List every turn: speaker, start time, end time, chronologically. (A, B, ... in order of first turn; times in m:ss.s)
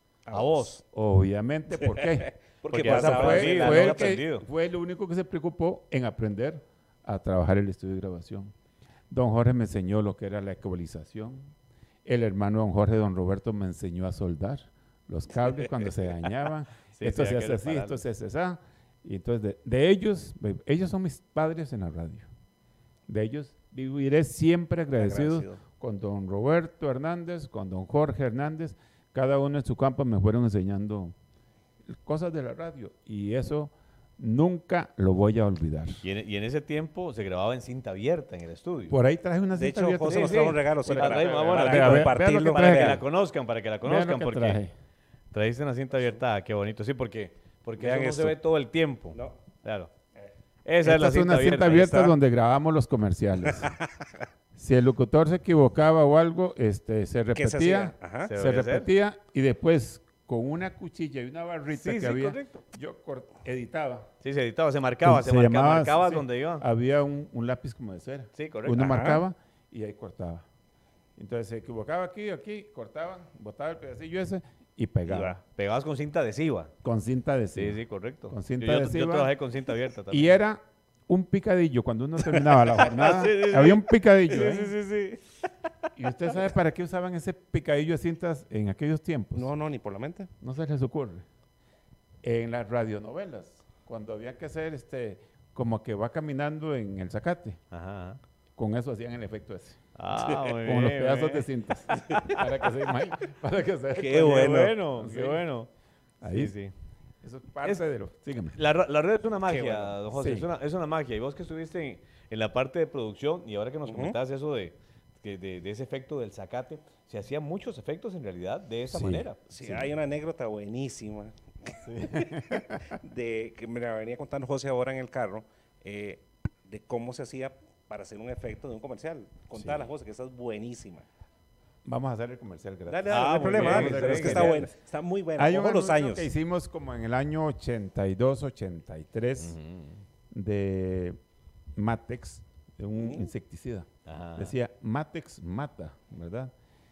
0:00.2-0:00.8 A
0:00.3-0:00.8 B
0:00.9-0:08.5 C
0:01.9-0:04.1 A
0:02.6-0:04.4 B
0:09.1-0:11.5 C
0:12.0-0:22.3 C
0:16.9-0:18.0 B
0:23.1-0:31.1 C
0:25.0-0:25.6 A
0:31.9-0:36.0 C
0:36.0-0:39.0 B
0:38.9-0:43.0 C
0:39.5-0:43.0 A
0:40.0-0:44.6 B
0:43.8-0:44.7 C
0:45.3-0:49.9 B
0:47.8-0:48.4 A
0:50.6-0:52.2 B
0:50.8-0:53.7 C
0:54.5-1:04.1 C
0:57.3-0:58.3 A
0:58.2-0:58.9 B
1:01.7-1:02.6 B
1:04.2-1:06.6 B
1:05.0-1:10.4 C
1:08.3-1:09.0 B
1:08.8-1:09.2 A
1:11.2-1:15.4 C
1:15.1-1:15.4 A
1:15.5-1:16.7 B
1:16.8-1:19.3 C
1:17.6-1:20.4 B
1:20.1-1:24.8 C
1:22.2-1:25.2 B
1:26.0-1:29.5 C
1:29.4-1:30.3 A
1:30.4-1:31.2 C
1:32.2-1:37.6 C
1:37.7-1:38.2 B
1:38.6-1:39.8 C
1:39.9-1:41.5 B
1:40.6-1:45.4 C
1:42.1-1:42.3 A
1:43.9-1:44.8 A
1:44.1-1:45.7 B
1:46.2-1:46.5 C
1:46.2-1:46.7 B
1:47.2-1:48.6 C
1:48.5-1:59.4 B
1:49.5-1:50.0 A
1:50.1-1:50.5 C
1:53.9-1:54.2 A
1:58.9-1:59.9 C
1:59.5-2:01.8 A
2:01.8-2:02.9 C
2:02.5-2:11.0 A
2:09.6-2:09.9 C
2:11.8-2:14.8 C
2:12.9-2:16.3 A
2:13.1-2:14.6 B
2:15.4-2:19.6 C
2:19.4-2:20.0 B
2:20.3-2:21.2 C
2:21.7-2:26.5 C
2:23.0-2:23.3 A
2:24.0-2:24.5 B